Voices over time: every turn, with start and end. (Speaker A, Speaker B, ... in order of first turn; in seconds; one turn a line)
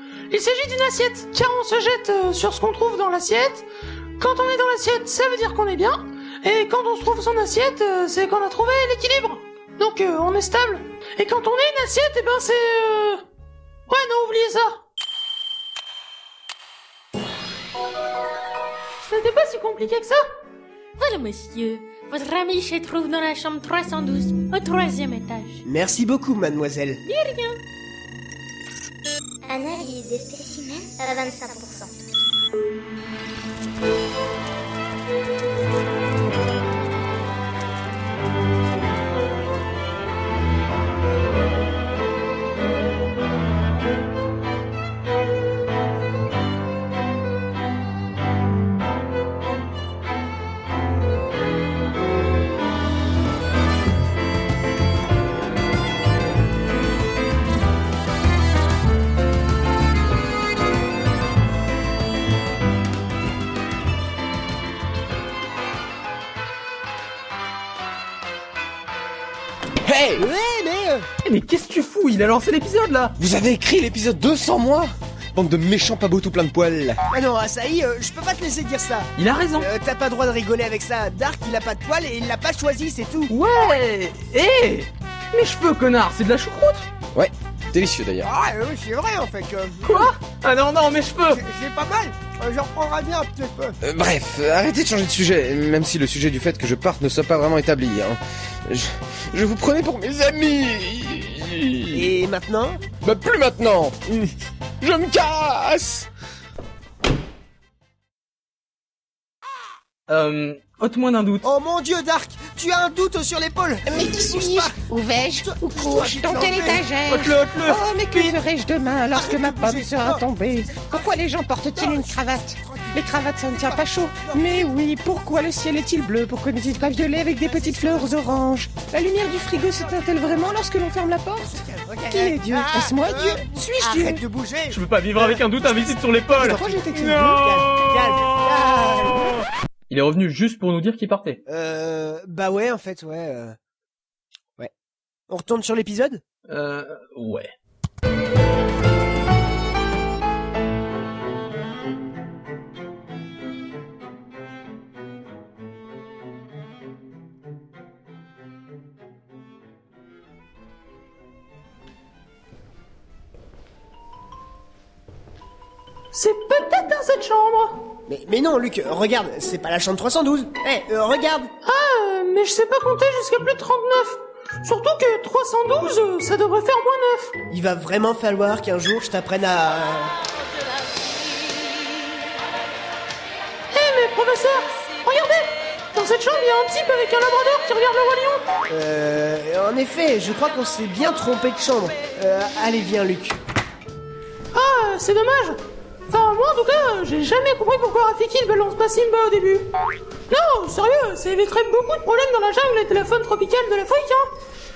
Speaker A: 0.3-3.7
Speaker A: 4.2-13.2
Speaker A: 13.9-14.8
Speaker A: 19.0-20.2
Speaker B: 21.0-25.6
Speaker C: 25.6-27.0
Speaker B: 27.1-27.6
Speaker D: 29.5-31.9
Speaker E: 69.8-70.2
Speaker C: 70.2-71.1
Speaker F: 71.2-73.2
Speaker E: 73.2-77.0
Speaker C: 77.1-83.3
Speaker F: 79.2-79.7
Speaker F: 83.3-86.9
Speaker E: 87.1-88.3
Speaker C: 88.2-90.0
Speaker F: 89.8-91.4
Speaker C: 91.3-93.8
Speaker E: 93.8-102.1
Speaker C: 101.9-102.8
Speaker E: 103.0-106.1
Speaker F: 110.1-111.4
Speaker C: 111.4-116.9
Speaker G: 114.2-131.5
Speaker F: 117.1-117.8
Speaker C: 117.7-118.4
Speaker C: 119.1-120.3
Speaker C: 120.8-121.1
Speaker C: 121.8-124.7
Speaker C: 127.3-128.1
Speaker C: 131.4-139.4
Speaker G: 132.1-134.2
Speaker F: 134.7-136.6
Speaker G: 136.4-137.4
Speaker F: 139.9-141.4
Speaker C: 141.5-143.6
Speaker C: 145.3-146.2
Speaker F: 146.5-147.5
Speaker A: 166.1-167.8
Speaker C: 168.1-171.5
Speaker A: 171.6-177.4
Speaker C: 177.5-180.2
Speaker A: 183.7-188.5
Speaker C: 188.7-193.4
Speaker A: 194.5-199.7
Speaker A: 200.3-204.3